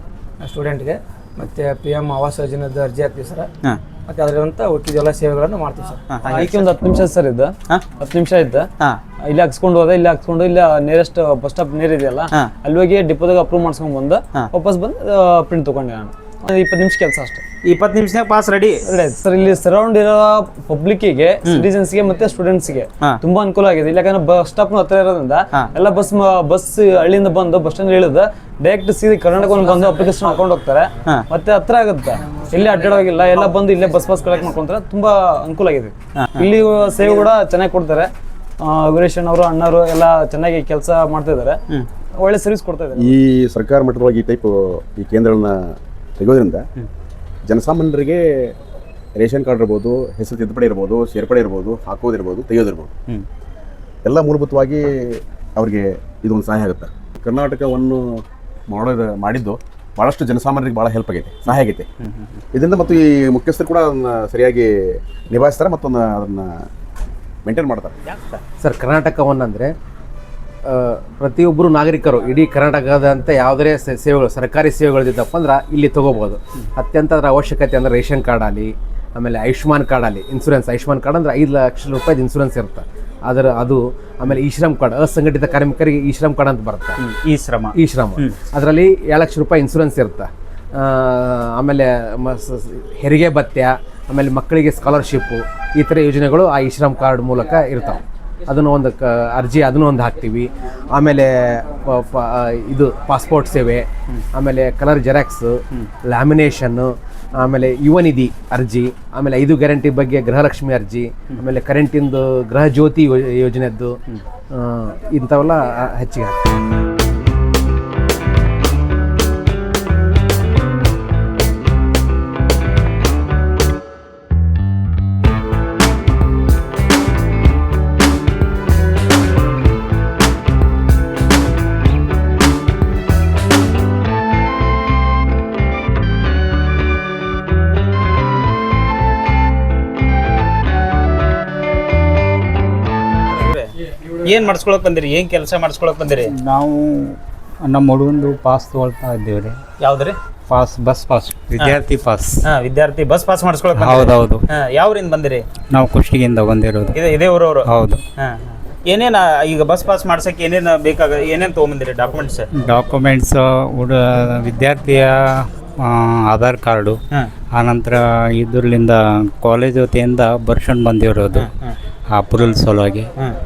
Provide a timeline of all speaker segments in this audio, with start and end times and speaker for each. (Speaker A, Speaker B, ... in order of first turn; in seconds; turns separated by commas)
Speaker A: 0.4-3.5, Speaker A: 4.1-6.0, Speaker B: 6.1-6.7, Speaker C: 6.3-8.7, Speaker C: 9.2-17.4, Speaker B: 17.6-18.9, Speaker C: 18.8-38.1, Speaker C: 38.6-41.6, Speaker C: 42.1-43.1, Speaker D: 43.0-45.6, Speaker D: 46.2-46.6, Speaker D: 47.5-48.2, Speaker D: 49.2-52.9, Speaker D: 54.0-61.9, Speaker B: 62.0-62.4, Speaker D: 62.5-66.5, Speaker D: 67.4-67.9, Speaker E: 68.6-69.7, Speaker E: 70.7-87.0, Speaker B: 87.0-88.3, Speaker E: 87.7-114.0, Speaker E: 114.5-116.5, Speaker B: 143.3-143.7, Speaker B: 144.2-146.3, Speaker F: 146.3-149.6, Speaker B: 149.8-150.2, Speaker F: 150.5-152.4, Speaker B: 152.5-155.4, Speaker F: 153.8-154.4, Speaker F: 155.7-157.0, Speaker B: 156.9-162.4, Speaker F: 157.6-158.0, Speaker F: 162.5-165.2, Speaker F: 165.8-167.0, Speaker F: 167.6-171.5, Speaker B: 171.3-171.7, Speaker F: 172.1-173.1